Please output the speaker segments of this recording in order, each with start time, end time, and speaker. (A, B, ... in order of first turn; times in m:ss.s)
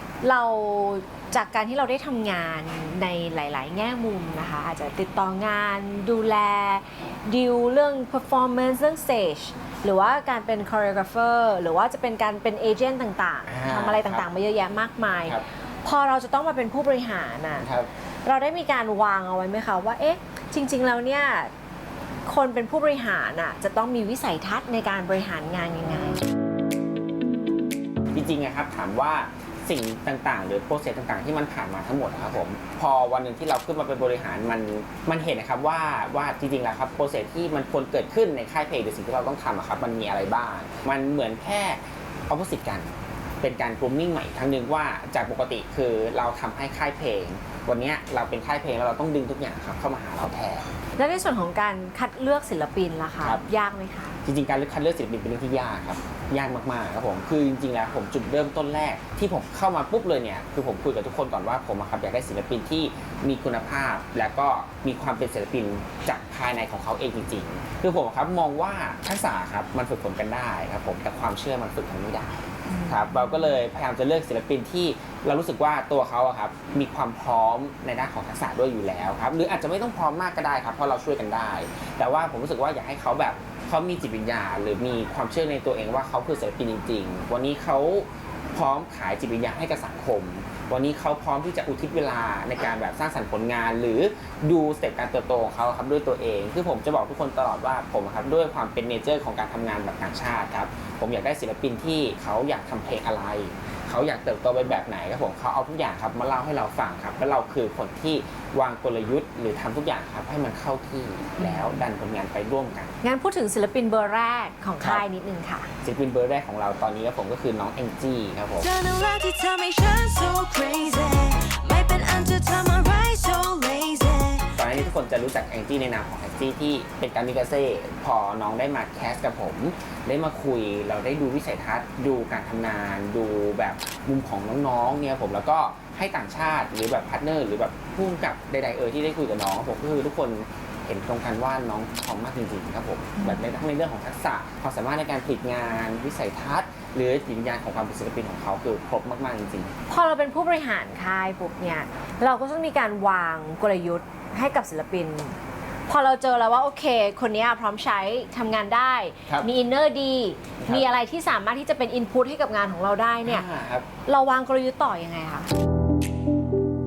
0:00.2-0:17.7 A
0:13.5-0:14.3 B
0:17.6-0:17.9 B
0:18.2-0:21.5 A
0:22.3-0:26.2 A
0:28.1-0:50.7 B
0:51.0-0:54.2 A
0:54.2-1:53.0 B
1:12.8-1:13.1 A
1:51.4-1:51.7 A
1:53.0-1:55.7 A
1:54.8-1:55.0 B
1:55.8-1:58.7 B
1:58.6-2:04.5 C
2:04.5-2:29.7 B
2:29.9-2:43.5 A
2:40.6-2:40.9 B
2:43.2-2:43.9 B
2:44.0-2:45.5 A